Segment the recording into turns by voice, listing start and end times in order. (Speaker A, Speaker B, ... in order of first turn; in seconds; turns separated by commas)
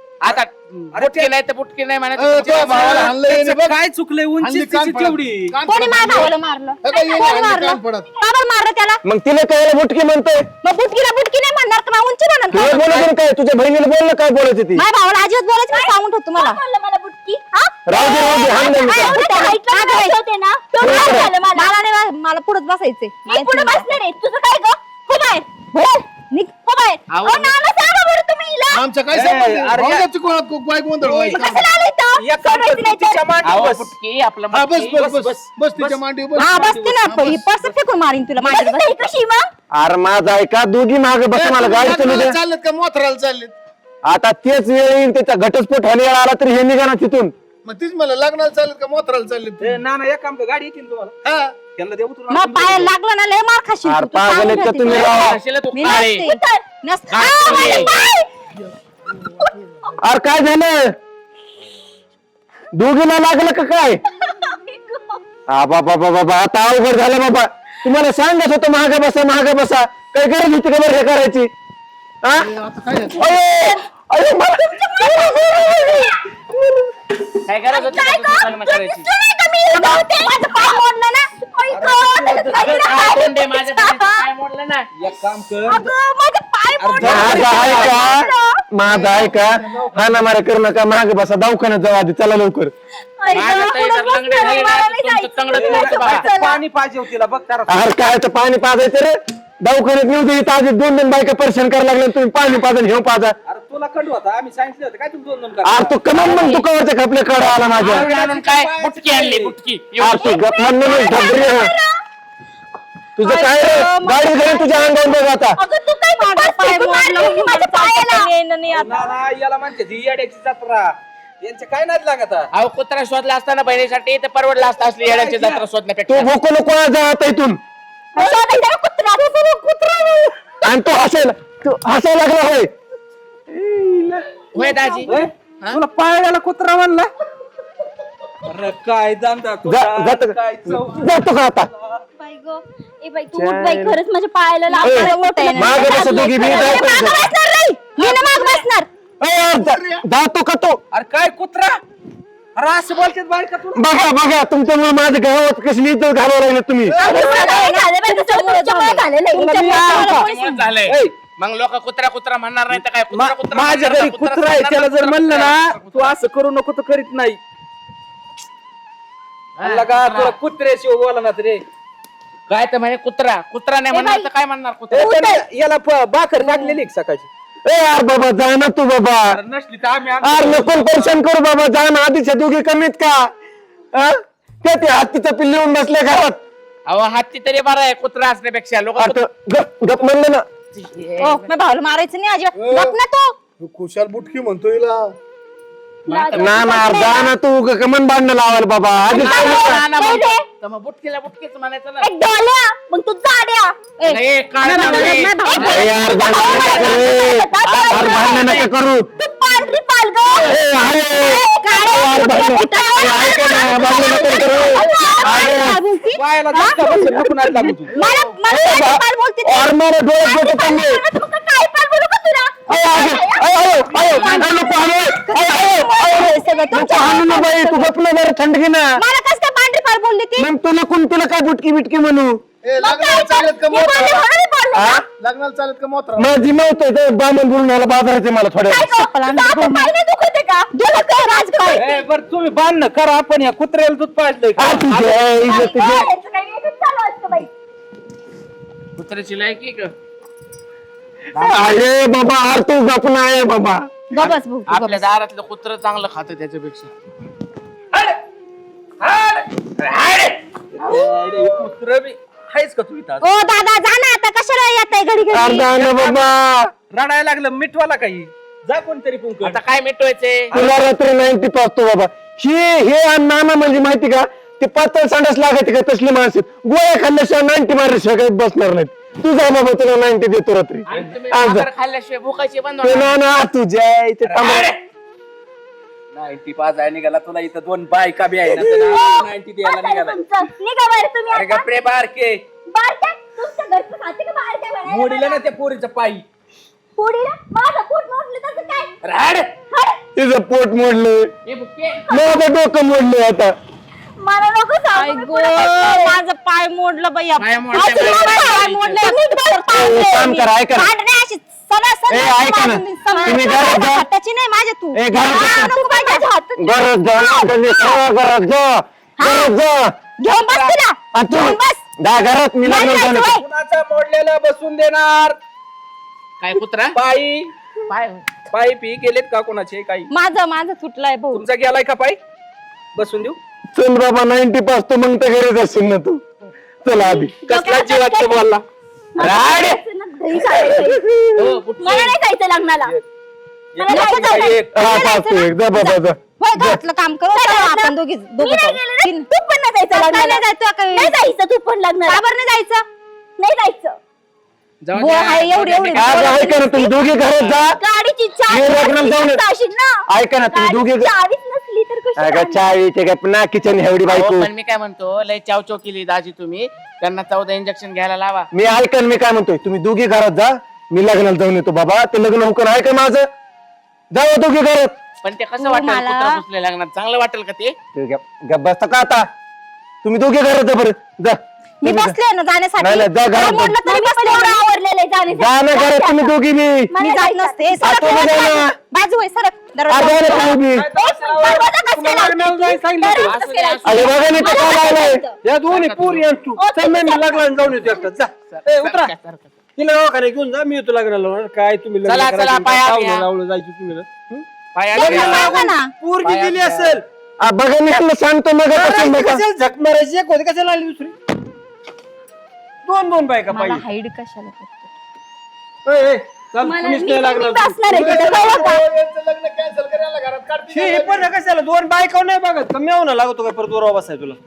Speaker A: 0.2-3.1, Speaker B: 0.9-1.3, Speaker C: 2.2-3.8, Speaker B: 2.6-5.6, Speaker C: 4.4-6.3, Speaker D: 5.7-9.0, Speaker C: 6.8-8.1, Speaker E: 9.1-10.5, Speaker D: 10.6-13.1, Speaker E: 12.5-14.8, Speaker D: 14.8-16.6, Speaker F: 15.7-21.7, Speaker E: 17.9-19.2, Speaker D: 18.8-20.2, Speaker E: 20.8-21.3, Speaker D: 21.5-23.9, Speaker F: 23.3-25.4, Speaker D: 25.7-27.4, Speaker A: 27.1-27.5, Speaker F: 27.6-28.8, Speaker C: 28.7-31.7, Speaker B: 29.1-30.1, Speaker B: 31.0-31.6, Speaker F: 31.6-32.1, Speaker B: 32.2-33.9, Speaker A: 33.4-35.1, Speaker C: 34.5-37.4, Speaker B: 34.9-37.0, Speaker D: 36.4-39.1, Speaker F: 38.4-39.4, Speaker E: 39.8-42.4, Speaker C: 41.4-43.5, Speaker E: 44.1-47.3, Speaker C: 47.6-49.8, Speaker B: 49.6-52.9, Speaker C: 51.2-51.5, Speaker D: 52.3-58.3, Speaker E: 53.9-55.4, Speaker A: 54.8-56.2, Speaker F: 56.3-56.6, Speaker A: 57.1-57.9, Speaker C: 59.1-59.5, Speaker E: 60.0-60.9, Speaker E: 62.7-64.0, Speaker F: 64.3-65.1, Speaker E: 65.5-71.5, Speaker E: 72.2-72.5, Speaker C: 72.4-73.3, Speaker E: 73.2-76.1, Speaker F: 74.8-75.5, Speaker A: 77.5-79.1, Speaker F: 77.8-83.3, Speaker D: 79.7-81.3, Speaker B: 81.7-83.0, Speaker A: 82.3-84.9, Speaker B: 85.0-86.0, Speaker F: 86.1-86.5, Speaker B: 86.8-88.0, Speaker D: 87.0-88.2, Speaker E: 87.0-88.2, Speaker E: 88.7-92.7, Speaker B: 88.8-90.3, Speaker F: 93.2-96.5, Speaker A: 93.3-96.3, Speaker B: 95.5-98.0, Speaker E: 97.7-103.4, Speaker B: 103.5-106.5, Speaker E: 105.6-108.1, Speaker A: 106.2-106.6, Speaker B: 107.6-109.5, Speaker A: 107.8-110.4, Speaker E: 110.0-111.7, Speaker F: 110.4-111.8, Speaker D: 110.9-111.5, Speaker E: 113.2-115.6, Speaker D: 113.2-114.9, Speaker F: 115.7-118.3, Speaker D: 116.2-119.1, Speaker B: 118.7-122.5, Speaker A: 122.5-126.3, Speaker B: 125.0-125.6, Speaker E: 126.1-127.6, Speaker D: 128.2-128.7, Speaker F: 128.2-130.3, Speaker E: 130.6-132.7, Speaker E: 133.5-134.2, Speaker A: 134.5-135.8, Speaker F: 134.6-135.1, Speaker B: 135.1-137.1, Speaker B: 138.5-142.0, Speaker E: 139.7-141.7, Speaker F: 142.2-146.7, Speaker E: 143.3-144.0, Speaker D: 144.7-148.9, Speaker E: 144.8-147.3, Speaker C: 148.0-148.6, Speaker E: 149.2-150.8, Speaker C: 149.5-150.0, Speaker B: 150.9-151.8, Speaker B: 152.6-153.9, Speaker E: 153.8-157.0, Speaker C: 156.9-157.6, Speaker D: 157.0-159.0, Speaker F: 157.1-159.8, Speaker B: 159.3-160.3, Speaker D: 159.6-160.6, Speaker A: 159.9-166.2, Speaker B: 160.8-161.1, Speaker B: 163.1-167.4, Speaker A: 169.6-170.4, Speaker B: 169.6-171.6, Speaker A: 172.5-175.2, Speaker F: 174.0-174.3, Speaker B: 174.9-177.3, Speaker E: 177.7-179.4, Speaker B: 179.3-181.2, Speaker E: 180.2-183.2, Speaker E: 183.9-186.4, Speaker A: 186.9-189.2, Speaker E: 189.0-190.4, Speaker A: 190.7-191.5, Speaker D: 191.2-193.3, Speaker C: 192.6-193.0, Speaker C: 193.6-195.1, Speaker A: 196.1-196.5, Speaker F: 196.1-197.3, Speaker E: 196.3-199.8, Speaker A: 199.2-202.1, Speaker F: 199.9-200.4, Speaker F: 202.0-203.7, Speaker D: 204.0-206.0, Speaker A: 204.1-207.1, Speaker F: 205.6-208.7, Speaker E: 205.7-209.1, Speaker A: 207.9-208.7, Speaker F: 209.2-215.2, Speaker E: 210.4-215.8, Speaker D: 211.2-217.2, Speaker B: 216.1-217.9, Speaker D: 217.9-219.7, Speaker E: 218.5-221.0, Speaker F: 220.3-223.9, Speaker E: 222.7-228.9, Speaker D: 223.9-227.9, Speaker A: 224.1-224.5, Speaker D: 229.0-230.5, Speaker E: 230.4-232.4, Speaker C: 232.6-234.3, Speaker F: 232.8-235.0, Speaker E: 234.8-235.0, Speaker C: 235.1-236.3, Speaker E: 236.2-238.9, Speaker F: 238.8-241.8, Speaker D: 238.9-239.9, Speaker D: 240.7-241.9, Speaker B: 241.8-245.5, Speaker E: 244.6-246.1, Speaker F: 245.4-247.5, Speaker A: 249.0-249.9, Speaker A: 251.3-251.8, Speaker E: 251.4-254.0, Speaker D: 254.1-255.0, Speaker A: 254.7-256.9, Speaker B: 259.0-263.2, Speaker D: 263.2-265.7, Speaker E: 265.3-266.7, Speaker B: 265.5-266.3, Speaker B: 266.9-269.6, Speaker A: 269.4-270.5, Speaker B: 270.5-270.8, Speaker E: 270.5-281.7, Speaker A: 280.9-283.1, Speaker E: 282.8-284.7, Speaker A: 284.3-284.8, Speaker B: 286.1-290.2, Speaker F: 288.7-291.4, Speaker B: 291.3-292.4, Speaker F: 292.8-295.4, Speaker B: 294.8-296.2, Speaker F: 297.0-298.9, Speaker A: 299.0-299.5, Speaker F: 299.7-300.0, Speaker E: 300.2-301.3, Speaker A: 301.5-302.1, Speaker E: 302.1-303.5, Speaker F: 304.2-306.1, Speaker D: 304.9-316.3, Speaker A: 307.4-309.0, Speaker F: 309.1-309.6, Speaker E: 309.7-310.9, Speaker E: 312.1-314.1, Speaker E: 314.9-315.7, Speaker F: 315.8-316.5, Speaker E: 316.6-319.9, Speaker D: 316.8-318.0, Speaker D: 319.2-319.6, Speaker D: 320.2-321.8, Speaker A: 320.3-320.8, Speaker E: 321.1-323.4, Speaker D: 322.6-323.4, Speaker B: 323.2-325.4, Speaker A: 326.4-327.0, Speaker B: 326.9-327.5, Speaker A: 327.9-328.3, Speaker B: 328.5-330.1, Speaker D: 330.1-331.4, Speaker B: 331.3-332.2, Speaker B: 332.9-333.4, Speaker E: 333.8-336.2, Speaker E: 336.8-337.4, Speaker F: 337.1-338.4, Speaker B: 337.4-338.6, Speaker F: 339.2-341.0, Speaker E: 339.2-339.8, Speaker B: 339.2-339.7, Speaker E: 340.7-341.6, Speaker A: 341.4-342.1, Speaker F: 341.8-342.9, Speaker B: 343.8-345.2, Speaker F: 343.8-344.5, Speaker D: 343.9-349.3, Speaker E: 344.8-346.8, Speaker F: 347.4-350.4, Speaker D: 349.9-351.1, Speaker F: 351.0-352.2, Speaker D: 352.1-352.9, Speaker F: 353.4-354.0, Speaker A: 354.8-356.4, Speaker D: 354.9-356.4, Speaker E: 355.9-357.8, Speaker F: 356.4-356.9, Speaker A: 357.3-357.6, Speaker F: 357.8-362.6, Speaker E: 358.5-359.4, Speaker E: 360.1-361.1, Speaker E: 362.2-364.5, Speaker A: 364.1-368.5, Speaker E: 368.5-373.3, Speaker E: 374.1-374.9, Speaker A: 375.2-377.8, Speaker D: 375.6-376.4, Speaker E: 377.9-379.3, Speaker E: 380.0-382.2, Speaker D: 381.8-384.7, Speaker E: 382.8-383.8, Speaker F: 383.9-386.3, Speaker E: 385.3-386.9, Speaker F: 387.0-387.7, Speaker D: 387.0-390.5, Speaker E: 387.8-388.7, Speaker E: 389.9-390.9, Speaker B: 390.3-394.3, Speaker F: 391.0-395.4, Speaker A: 393.2-394.8, Speaker E: 393.8-395.2, Speaker B: 395.4-399.1, Speaker A: 395.7-396.2, Speaker F: 396.6-398.1, Speaker A: 398.5-399.5, Speaker B: 399.8-407.0, Speaker A: 402.1-403.3, Speaker A: 404.8-405.7, Speaker D: 404.9-405.9, Speaker A: 406.2-407.0, Speaker E: 407.4-409.4, Speaker B: 408.7-411.1, Speaker B: 412.9-413.8, Speaker D: 413.5-414.9, Speaker B: 415.9-418.7, Speaker F: 416.7-417.9, Speaker D: 417.9-418.8, Speaker C: 417.9-421.3, Speaker B: 420.7-424.4